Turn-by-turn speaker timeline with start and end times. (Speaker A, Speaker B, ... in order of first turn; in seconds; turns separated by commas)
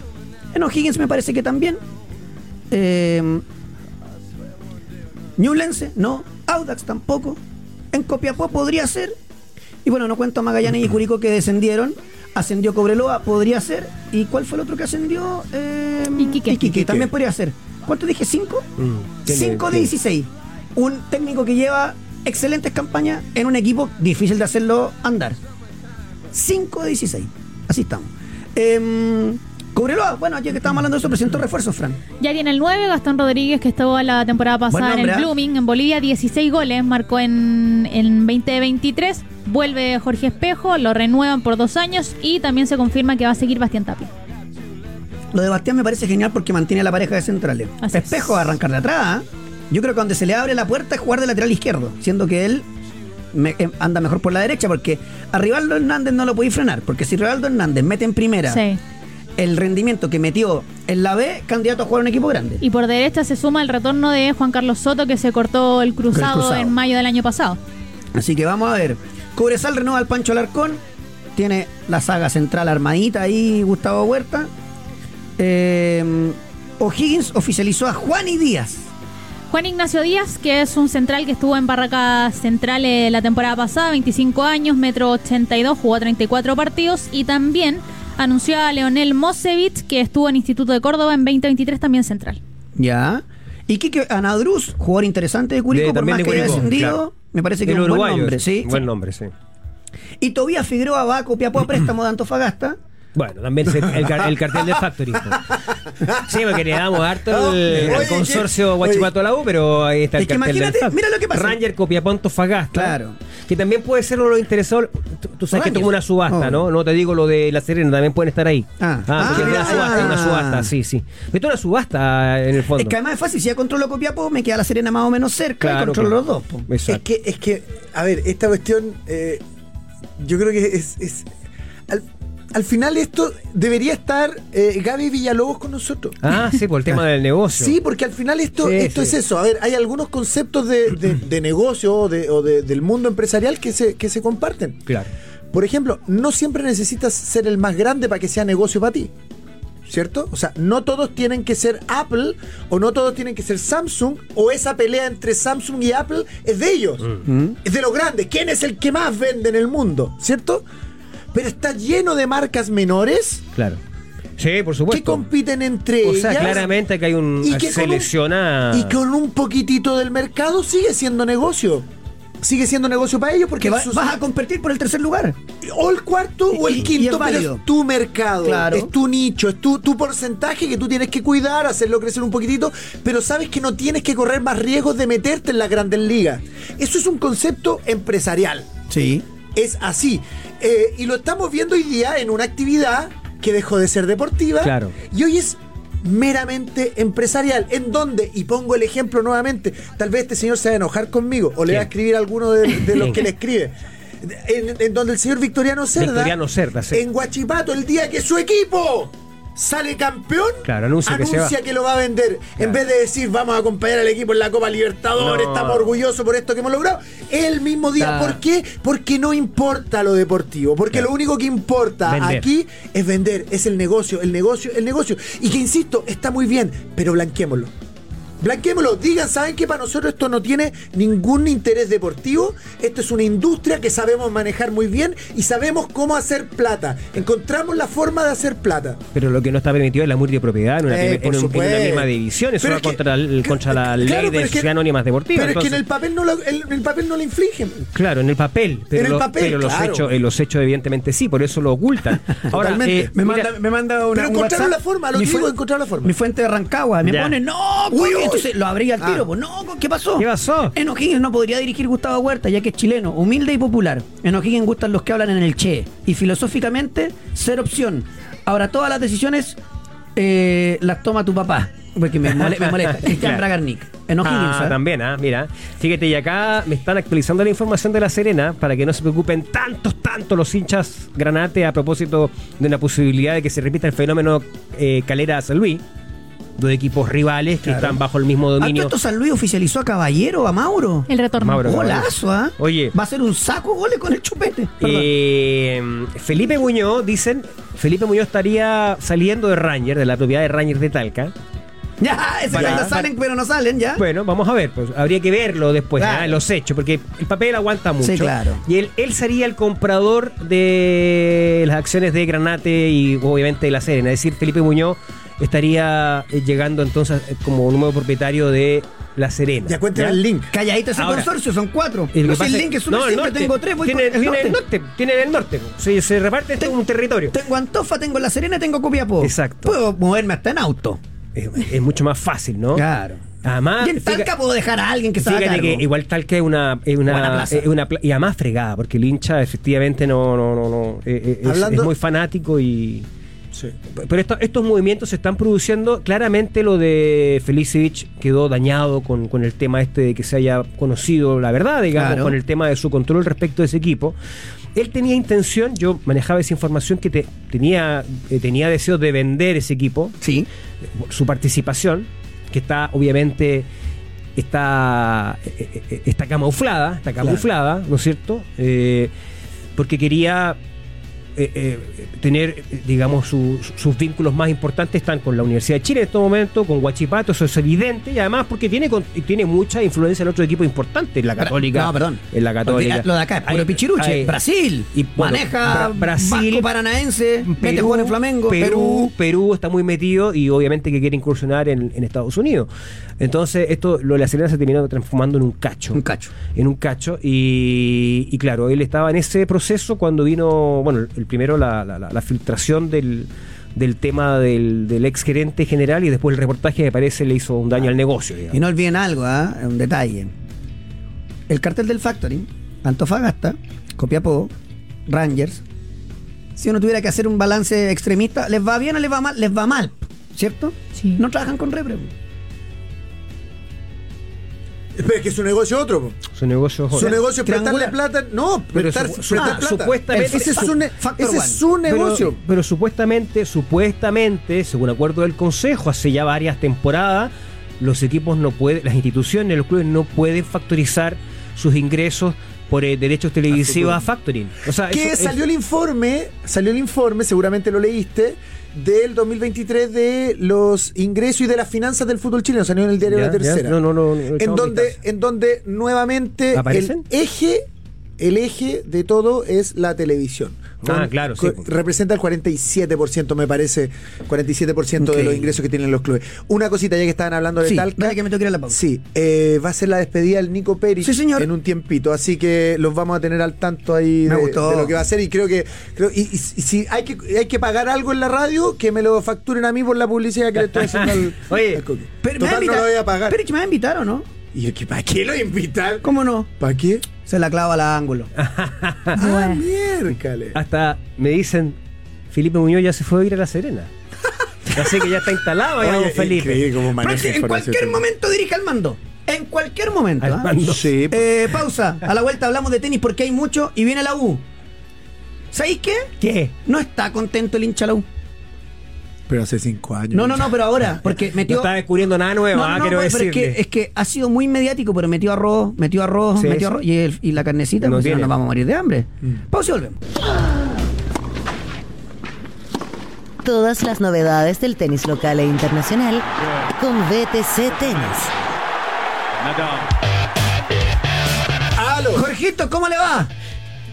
Speaker A: 0.5-1.8, Speaker A: 2.7-3.4, Speaker A: 5.4-7.4, Speaker A: 7.9-9.2, Speaker A: 9.8-18.7, Speaker B: 16.2-16.7, Speaker C: 18.8-19.9, Speaker A: 19.2-25.4, Speaker A: 26.3-32.0, Speaker B: 32.2-44.1, Speaker A: 34.7-35.3, Speaker A: 45.3-52.7, Speaker B: 47.8-48.3, Speaker A: 53.3-58.6, Speaker B: 58.5-58.8, Speaker A: 59.4-62.6, Speaker B: 62.6-67.6, Speaker A: 66.1-66.7, Speaker A: 68.2-70.8, Speaker A: 71.4-74.5, Speaker A: 75.4-78.9, Speaker B: 79.5-92.4, Speaker A: 92.8-98.8, Speaker C: 95.7-97.0, Speaker C: 97.6-99.3, Speaker A: 100.2-102.8, Speaker C: 103.2-105.6, Speaker D: 106.1-106.3, Speaker C: 106.1-123.0, Speaker D: 107.2-109.1, Speaker A: 110.2-111.6, Speaker A: 112.7-113.2, Speaker A: 115.5-116.6, Speaker A: 118.8-120.7, Speaker A: 122.8-126.7, Speaker C: 125.6-126.2, Speaker C: 126.7-127.0, Speaker D: 126.9-129.4, Speaker D: 130.2-131.3, Speaker D: 131.9-136.2, Speaker C: 136.2-137.8, Speaker D: 137.5-144.9, Speaker C: 138.7-139.1, Speaker D: 145.5-149.1, Speaker D: 149.9-157.1, Speaker A: 157.2-157.6, Speaker D: 157.6-160.7, Speaker D: 161.3-163.5, Speaker C: 164.4-165.3, Speaker D: 164.9-166.7, Speaker C: 166.0-169.0, Speaker D: 167.4-168.1, Speaker D: 168.7-171.9, Speaker D: 172.4-174.1, Speaker A: 173.6-175.4, Speaker D: 175.6-188.7, Speaker A: 176.5-177.6, Speaker A: 178.4-178.9, Speaker A: 188.9-189.2, Speaker D: 189.6-206.4, Speaker C: 194.6-195.0, Speaker C: 202.9-203.3, Speaker C: 206.0-207.1, Speaker D: 206.9-227.7, Speaker C: 210.7-211.5, Speaker C: 215.2-215.9, Speaker C: 218.1-218.3, Speaker C: 222.1-222.5, Speaker D: 228.4-239.0, Speaker C: 239.1-245.8, Speaker D: 240.9-244.7, Speaker D: 245.3-247.8, Speaker C: 247.9-253.5, Speaker D: 248.9-250.1, Speaker D: 252.5-256.1, Speaker A: 252.6-269.6, Speaker C: 257.0-257.4, Speaker D: 257.9-259.2, Speaker C: 260.2-260.8, Speaker A: 270.2-274.8, Speaker C: 272.3-273.5, Speaker C: 274.2-285.8, Speaker C: 286.6-288.9, Speaker A: 287.6-288.0, Speaker A: 288.6-291.1, Speaker B: 291.1-291.6, Speaker C: 291.4-292.9, Speaker A: 291.6-295.1, Speaker C: 294.8-301.3, Speaker A: 302.0-304.0, Speaker C: 302.5-303.1, Speaker D: 302.6-302.9, Speaker C: 304.0-320.2, Speaker A: 306.0-306.4, Speaker A: 308.0-308.6, Speaker D: 319.7-320.5, Speaker A: 320.5-324.6, Speaker C: 320.9-321.3, Speaker C: 322.1-327.4, Speaker A: 327.3-331.0, Speaker C: 329.2-329.8, Speaker C: 331.4-332.9, Speaker A: 332.7-333.2, Speaker C: 333.4-334.3, Speaker A: 333.8-335.8, Speaker C: 335.2-343.1, Speaker A: 337.1-337.7, Speaker D: 341.4-341.9, Speaker C: 343.9-354.2, Speaker A: 351.9-352.4, Speaker C: 354.8-360.2, Speaker A: 360.2-360.5, Speaker C: 360.9-363.7, Speaker C: 364.4-369.1, Speaker C: 369.8-370.6, Speaker C: 371.4-384.4, Speaker A: 381.4-389.1, Speaker C: 384.9-386.7, Speaker C: 387.4-392.7, Speaker C: 393.2-408.6, Speaker A: 395.9-396.3, Speaker A: 408.5-410.3, Speaker A: 411.5-414.5, Speaker A: 415.1-415.6, Speaker A: 416.6-422.1, Speaker D: 424.9-426.2, Speaker C: 426.4-427.2, Speaker D: 426.9-432.4, Speaker A: 427.0-428.0, Speaker C: 428.7-430.8, Speaker A: 429.4-431.6, Speaker C: 431.9-445.4, Speaker D: 443.5-444.0, Speaker D: 444.9-453.8, Speaker C: 453.0-455.0, Speaker D: 454.4-457.7, Speaker C: 456.5-457.0, Speaker D: 458.2-483.4, Speaker C: 460.8-461.7, Speaker A: 465.0-465.5, Speaker A: 467.6-468.8, Speaker A: 471.0-471.5, Speaker A: 474.3-474.9, Speaker C: 480.7-481.8, Speaker A: 482.2-484.3, Speaker D: 484.5-487.1, Speaker A: 486.0-486.5, Speaker A: 487.2-488.3, Speaker C: 488.4-489.2, Speaker D: 489.1-490.6, Speaker B: 489.2-489.6, Speaker C: 490.5-491.8, Speaker C: 492.3-493.9, Speaker C: 494.7-496.7, Speaker D: 495.8-498.1, Speaker A: 497.0-504.4, Speaker C: 500.2-500.9, Speaker D: 500.6-501.3, Speaker A: 505.5-508.1, Speaker D: 509.3-510.6, Speaker A: 510.1-511.7, Speaker C: 511.1-513.6, Speaker A: 512.5-520.0, Speaker C: 516.4-516.7, Speaker C: 517.8-518.3, Speaker E: 523.4-528.4, Speaker D: 531.8-532.3, Speaker A: 532.1-533.3